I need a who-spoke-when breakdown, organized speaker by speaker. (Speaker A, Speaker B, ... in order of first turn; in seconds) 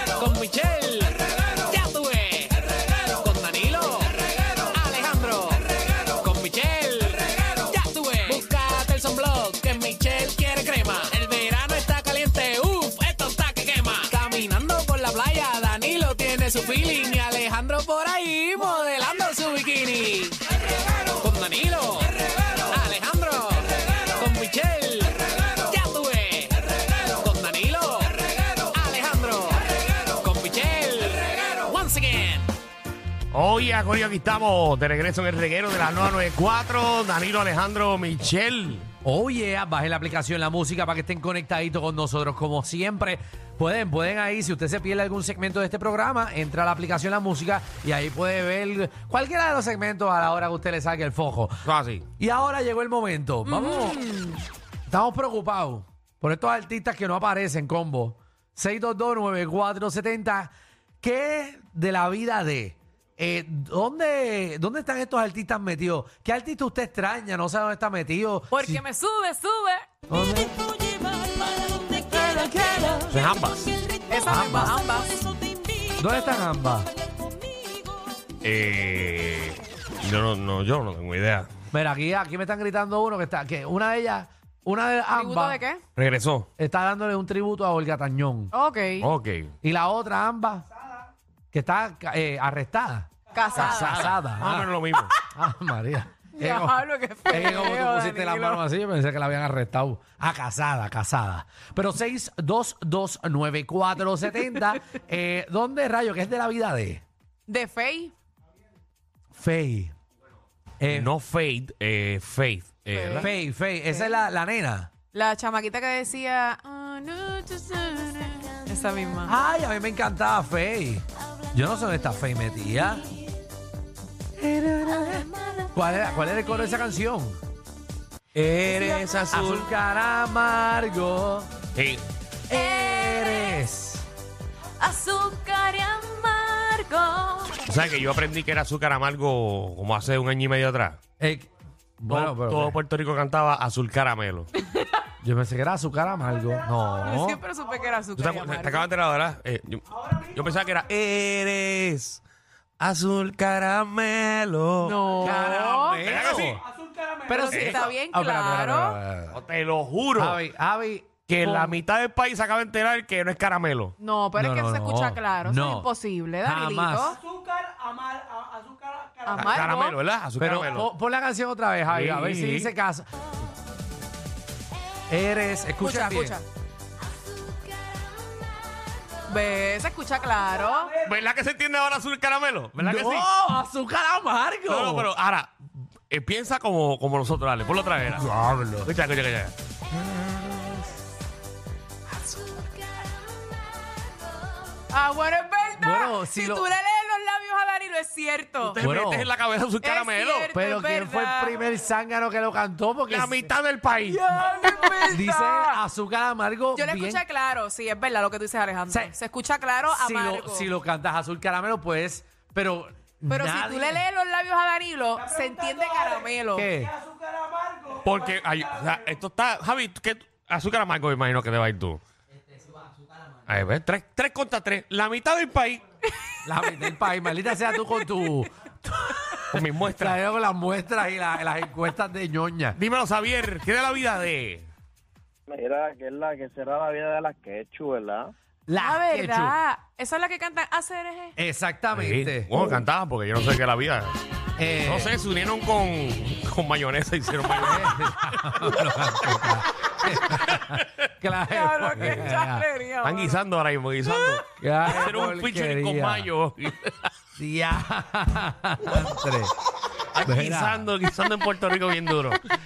Speaker A: 0.2-20.4, 21.2-32.5
Speaker B: 33.3-38.9, 51.6-52.1, 73.1-73.8, 78.4-81.5, 86.0-86.5, 89.0-89.5, 93.6-95.1, 110.9-113.3, 128.3-129.7, 131.8-132.0, 137.7-141.0, 142.1-144.5, 148.2-152.2, 152.8-155.5, 156.0-156.6, 157.4-157.9, 159.3-160.4, 161.3-163.9, 169.3-170.9, 171.9-172.7, 181.0-183.3, 184.7-185.5, 186.1-188.3, 188.8-189.5, 198.6-200.5, 203.1-204.2, 217.9-222.0, 223.5-225.8, 229.5-230.2, 232.8-234.7, 241.9-244.2, 244.8-249.1, 250.5-250.9, 252.0-252.3, 253.0-257.1, 260.1-262.4
Speaker C: 39.0-51.6, 52.2-54.0, 54.9-68.8, 70.1-70.7, 72.1-72.9, 74.2-74.8, 76.0-76.9, 81.7-85.6, 86.6-88.5, 89.6-90.7, 91.5-94.7, 95.3-107.0, 109.3-109.9, 110.8-111.1, 113.2-114.9, 119.3-123.1, 124.4-127.4, 129.3-131.5, 132.5-134.1, 141.2-141.5, 142.0-142.8, 145.2-147.4, 155.2-156.6, 157.3-159.4, 160.2-161.8, 164.4-165.9, 166.4-167.2, 170.4-173.1, 175.1-176.4, 182.8-185.1, 188.1-188.9, 190.1-190.7, 195.8-196.7, 198.8-199.3, 200.5-203.5, 205.1-207.2, 208.9-209.1, 209.9-214.0, 216.5-216.9, 226.5-232.8, 238.7-239.6, 241.4-242.7, 244.6-245.1, 247.6-252.7, 254.6-256.3, 257.4-259.5, 260.2-260.9
Speaker D: 53.5-54.4, 68.5-69.9, 71.4-72.8, 74.1-75.3, 85.1-85.8, 88.5-89.1, 93.3-94.2, 96.4-98.6, 107.5-108.1, 112.9-113.3, 113.9-114.2, 115.1-119.3, 132.8-133.2, 134.8-137.6, 147.0-148.9, 154.8-156.1, 157.3-159.0, 164.0-167.2, 169.2-170.0, 175.8-176.4, 179.3-181.0, 194.9-198.8, 199.8-201.6, 204.1-205.8, 206.8-210.7, 213.3-216.7, 238.8-241.3, 251.5-253.4, 254.1-254.4
Speaker E: 156.8-157.2, 167.3-169.0, 217.0-217.8
Speaker F: 235.5-238.2